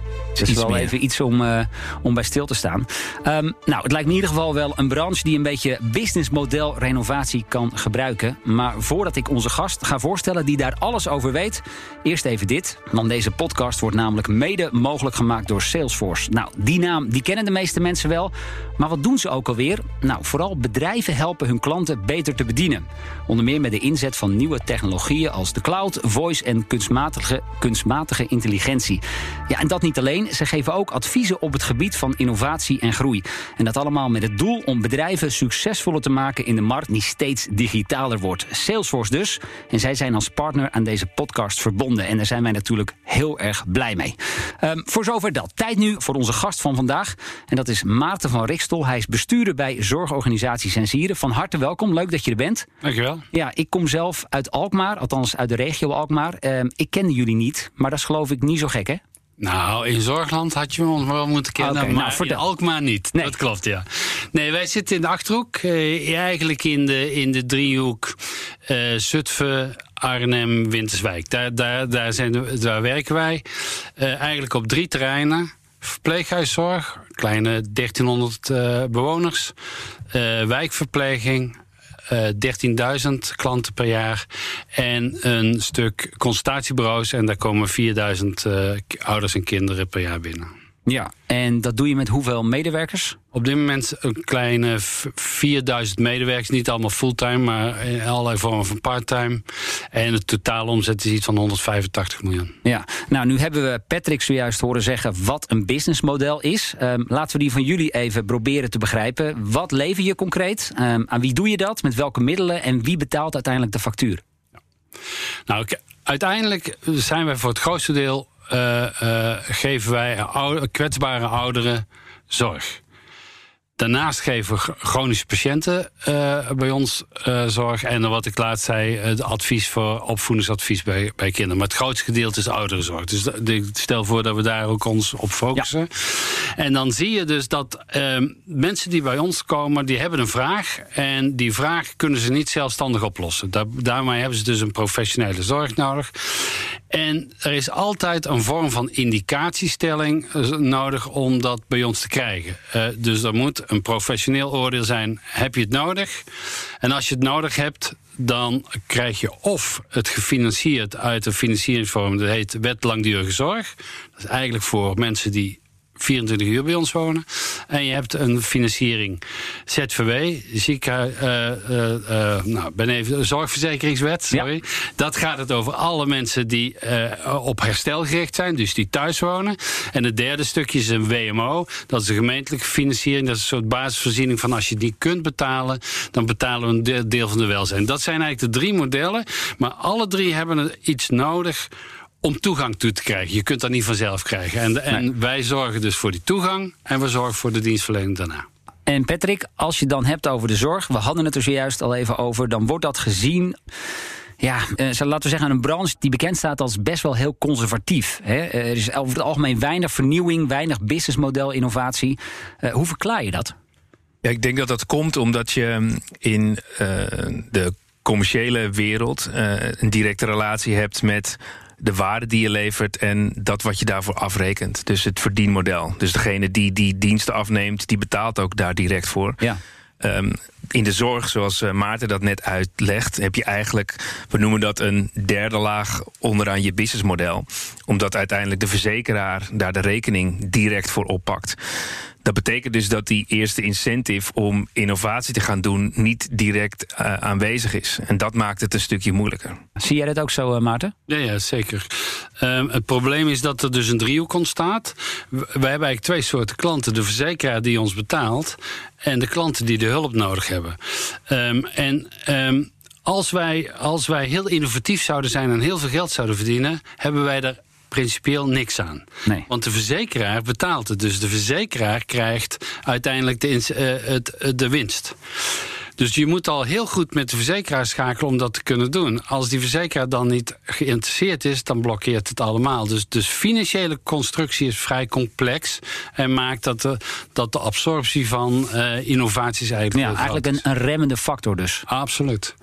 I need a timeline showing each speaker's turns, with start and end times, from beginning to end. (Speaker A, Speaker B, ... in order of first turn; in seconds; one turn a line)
Speaker A: 0.4-0.9
Speaker B: 0.4-52.7
Speaker C: 52.8-53.2
Speaker B: 53.3-59.0
Speaker C: 59.4-79.5
Speaker B: 61.6-62.4
Speaker C: 80.1-81.6
Speaker C: 82.1-90.5
Speaker B: 90.9-93.2
Speaker C: 93.3-102.5
Speaker B: 102.6-114.2
Speaker C: 115.5-122.8
Speaker C: 123.8-156.2
Speaker C: 156.8-191.7
Speaker C: 192.2-198.4
Speaker B: 198.9-203.6
Speaker B: 204.4-213.5
Speaker A: 214.2-229.4
Speaker A: 230.0-241.6
Speaker A: 242.2-249.6
Speaker B: 249.8-250.9
Speaker C: 251.1-275.2
Speaker C: 276.0-290.6
Speaker B: 289.9-291.8
Speaker C: 291.9-292.5